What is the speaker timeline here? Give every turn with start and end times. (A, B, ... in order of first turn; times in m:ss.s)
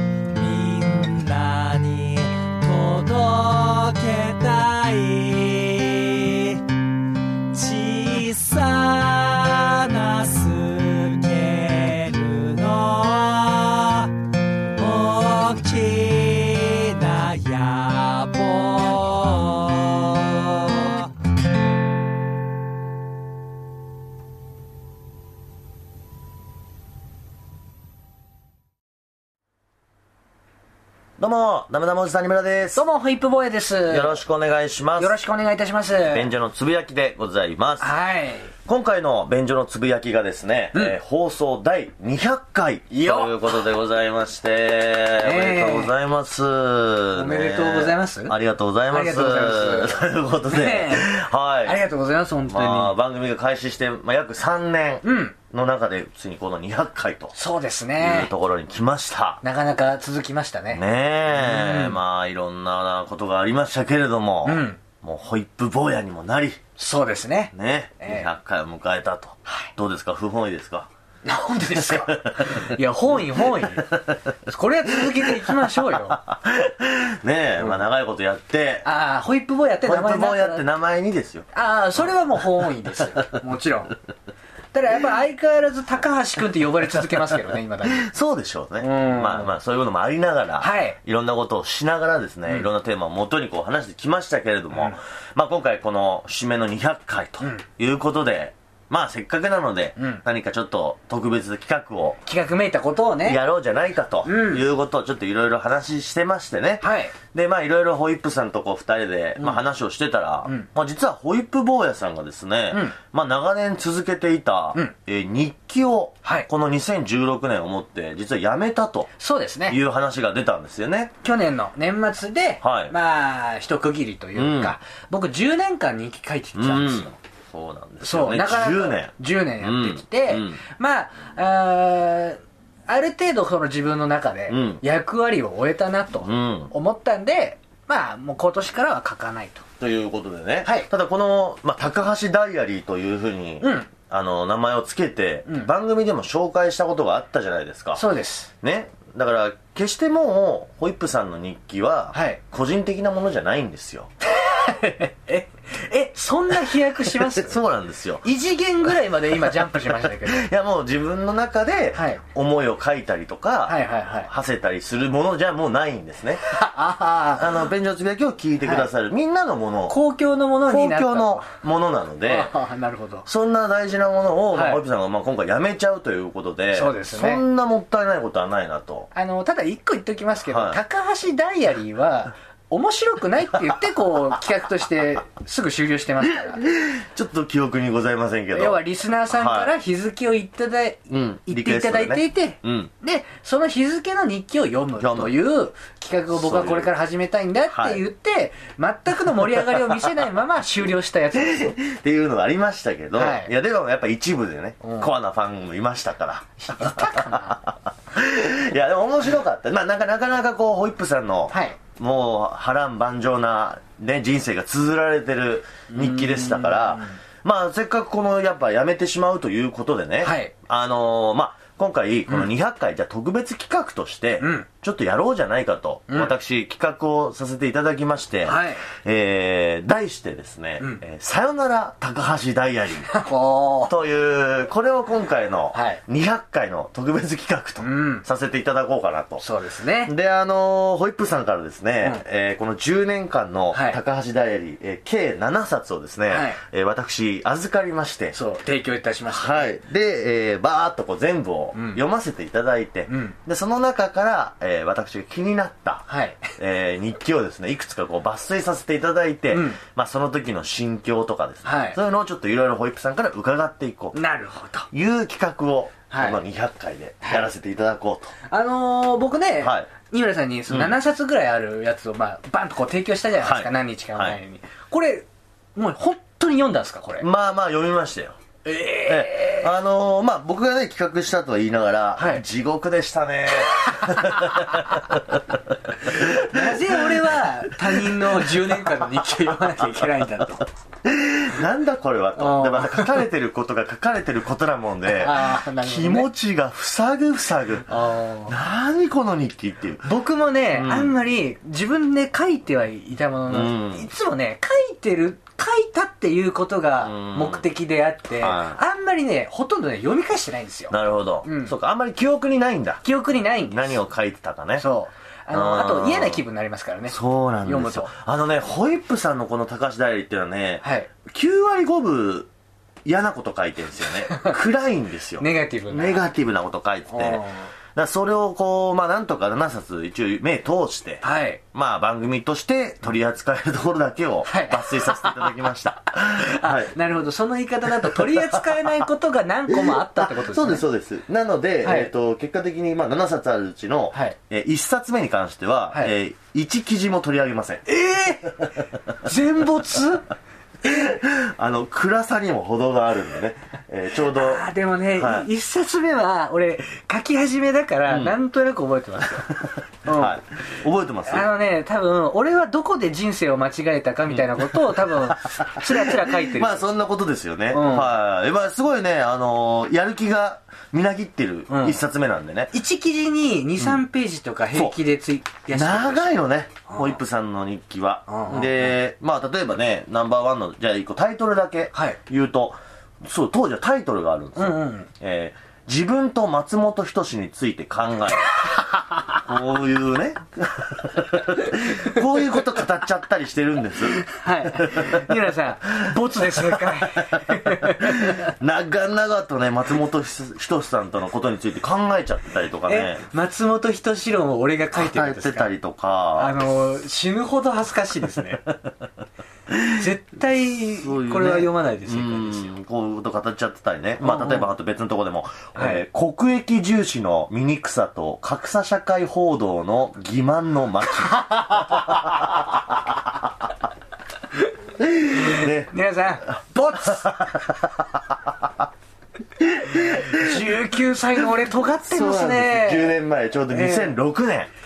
0:00.3-0:06.8 A
0:07.5-0:14.1 A
0:14.8-0:21.1 A
0:31.2-0:32.8 B
0:32.7-0:34.2 C
0:33.9-0:35.1 B
0:35.0-0:36.3 C
0:36.1-0:37.9 B
0:37.8-0:38.5 C
0:38.6-0:51.8 B
0:42.9-0:43.6 C
0:45.2-0:45.9 C
0:47.1-0:48.3 C
0:48.9-0:53.0 C
0:52.5-0:57.3 B
0:55.0-0:55.3 C
0:57.3-0:58.3 C
0:58.0-0:59.4 B
0:59.4-1:02.0 C
1:00.7-1:06.6 B
1:04.4-1:04.8 C
1:06.8-1:08.3 C
1:07.5-1:10.9 B
1:11.2-1:16.2 C
1:11.8-1:14.2 B
1:15.0-1:15.4 B
1:16.1-1:18.9 B
1:18.8-1:20.6 C
1:19.8-1:21.5 B
1:21.5-1:23.9 C
1:24.7-1:28.1 C
1:27.8-1:42.2 B
1:28.8-1:29.5 C
1:30.6-1:31.0 C
1:40.0-1:40.2 C
1:42.2-1:43.4 C
1:43.2-1:59.1 B
1:44.2-1:44.6 C
1:46.8-1:47.2 C
1:59.2-1:59.8 C
1:59.7-2:01.1 B
2:01.2-2:07.2 C
2:02.6-2:02.9 B
2:04.3-2:04.8 B
2:06.6-2:10.6 B
2:08.0-2:19.7 C
2:14.5-2:14.8 B
2:16.2-2:16.7 B
2:19.8-2:28.0 B
2:23.6-2:23.9 C
2:28.0-2:28.5 C
2:28.6-2:34.1 B
2:32.1-2:32.4 C
2:34.2-2:37.6 C
2:36.7-2:38.2 B
2:38.2-2:40.5 C
2:39.7-2:46.4 B
2:41.9-2:42.2 C
2:43.7-2:44.3 C
2:46.5-2:47.7 C
2:47.4-2:49.9 B
2:48.6-2:48.9 C
2:49.9-2:51.5 C
2:50.7-2:52.5 B
2:52.2-2:53.2 C
2:53.2-2:59.1 B
2:54.5-2:54.8 C
2:56.7-2:57.4 C
2:59.1-3:06.6 C
3:00.5-3:00.8 B
3:06.5-3:08.8 B
3:08.5-3:21.8 C
3:09.3-3:09.7 B
3:11.1-3:12.9 B
3:15.0-3:15.3 B
3:16.3-3:16.9 B
3:17.7-3:18.0 B
3:21.3-3:53.1 B
3:23.2-3:23.5 C
3:24.8-3:25.1 C
3:26.6-3:27.6 C
3:31.5-3:31.8 C
3:35.9-3:37.2 C
3:40.2-3:40.5 C
3:44.4-3:44.7 C
3:48.4-3:48.8 C
3:53.1-3:53.9 C
3:53.9-3:59.4 B
3:55.7-3:56.0 C
3:57.8-3:58.2 C
3:59.4-4:00.1 C
4:00.0-4:08.4 B
4:03.7-4:04.0 C
4:06.3-4:06.6 C
4:08.3-4:09.8 C
4:09.3-4:16.1 B
4:11.7-4:12.0 C
4:13.1-4:13.4 C
4:16.1-4:16.5 C
4:16.6-4:24.2 B
4:19.5-4:19.8 C
4:21.6-4:22.0 C
4:24.1-4:24.9 C
4:24.9-4:28.4 B
4:26.1-4:26.4 C
4:27.2-4:27.5 C
4:28.5-4:37.3 C
4:29.6-4:29.9 B
4:33.4-4:34.4 B
4:37.2-4:38.4 B
4:38.6-4:39.7 C
4:39.0-4:48.6 B
4:42.2-4:42.4 C
4:43.9-4:44.7 C
4:46.0-4:50.7 C
4:51.0-4:57.9 B
4:52.4-4:53.2 C
4:55.1-4:56.3 C
4:57.9-4:58.6 C
4:58.5-5:00.1 B
5:00.1-5:11.7 C
5:00.7-5:01.1 B
5:03.5-5:04.1 B
5:07.0-5:07.7 B
5:08.4-5:08.8 B
5:10.9-5:13.0 B
5:13.0-5:14.0 C
5:13.7-5:14.9 B
5:14.8-5:18.1 C
5:15.5-5:16.4 B
5:17.1-5:22.5 B
5:20.8-5:21.1 C
5:23.0-5:36.9 B
5:25.4-5:26.2 C
5:27.1-5:27.7 C
5:31.2-5:31.6 C
5:34.4-5:35.5 C
5:36.3-5:40.8 C
5:38.0-5:39.0 B
5:39.7-5:47.9 B
5:41.8-5:42.1 C
5:47.9-5:50.3 C
5:50.8-5:55.5 B
5:54.2-6:00.4 C
5:58.1-5:58.4 B
6:00.1-6:01.5 B
6:01.2-6:06.9 C
6:04.7-6:12.7 B
6:07.7-6:08.1 C
6:11.7-6:12.0 C
6:12.7-6:17.2 C
6:15.7-6:28.6 B
6:18.3-6:18.9 C
6:24.6-6:25.1 C
6:29.3-6:35.3 B
6:34.2-6:38.5 C
6:36.0-6:43.2 B
6:42.9-6:45.7 C
6:44.9-6:46.6 B
6:46.4-6:48.7 C
6:49.7-6:50.0 B
6:49.9-6:52.7 C
6:51.0-7:03.5 B
6:54.2-6:54.7 C
6:55.8-6:56.0 C
7:01.4-7:02.1 C
7:05.0-7:05.9 B
7:05.2-7:07.4 C
7:06.9-7:08.7 B
7:09.6-7:10.6 B
7:09.9-7:13.2 C
7:12.0-7:14.7 B
7:13.7-7:14.2 C